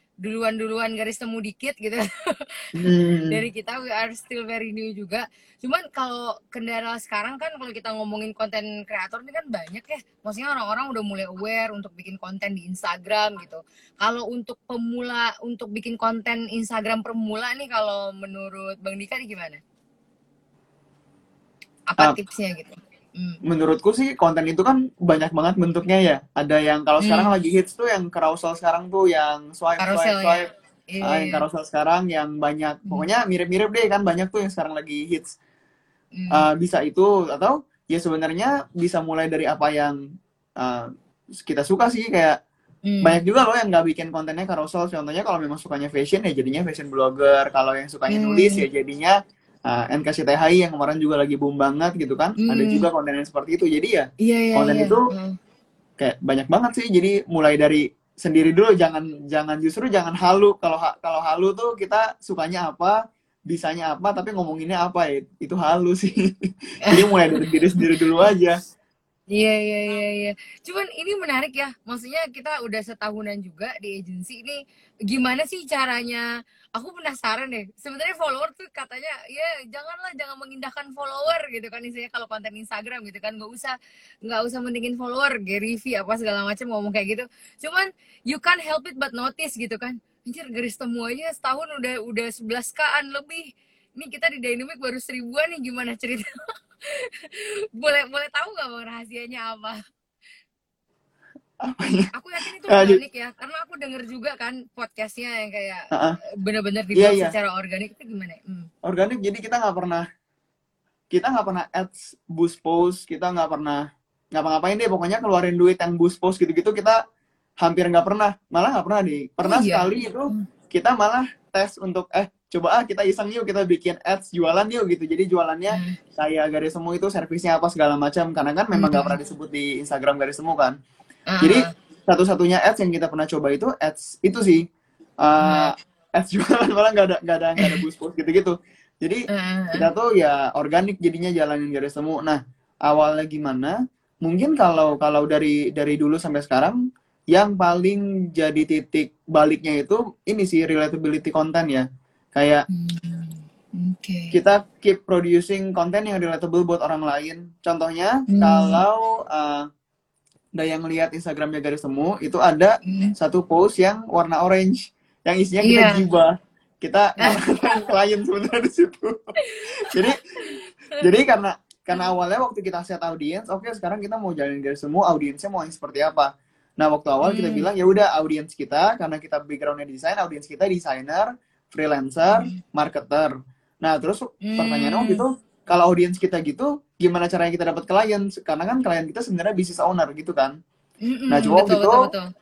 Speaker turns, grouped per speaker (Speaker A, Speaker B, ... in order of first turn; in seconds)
Speaker A: 0.2-2.1, 3.3-19.6, 21.9-23.4, 27.0-27.3, 29.8-31.4, 36.2-36.5, 42.9-43.2, 48.1-48.6, 52.4-52.9, 54.2-55.3, 66.8-67.1, 69.3-76.2, 76.8-96.3, 96.9-99.8, 102.1-105.9, 106.4-108.7, 119.4-120.5, 125.7-126.0, 128.8-129.2, 131.3-131.7, 135.4-135.7, 139.3-139.9, 152.7-154.4, 158.3-158.8, 162.9-163.1, 165.6-166.0, 169.4-170.6, 177.2-177.7, 182.3-182.6, 184.4-185.2, 191.0-192.3
Speaker B: 2.8-3.4, 23.4-30.5, 31.0-35.4, 36.3-40.0, 40.6-42.4, 43.0-55.0, 56.0-68.6, 101.6-102.1, 102.7-103.0, 105.9-106.2, 106.9-107.3, 108.8-110.0, 111.1-117.0, 117.6-130.8, 131.4-134.7, 135.2-146.8, 147.3-152.6, 154.3-159.7, 160.6-169.2, 169.8-190.6, 191.3-192.1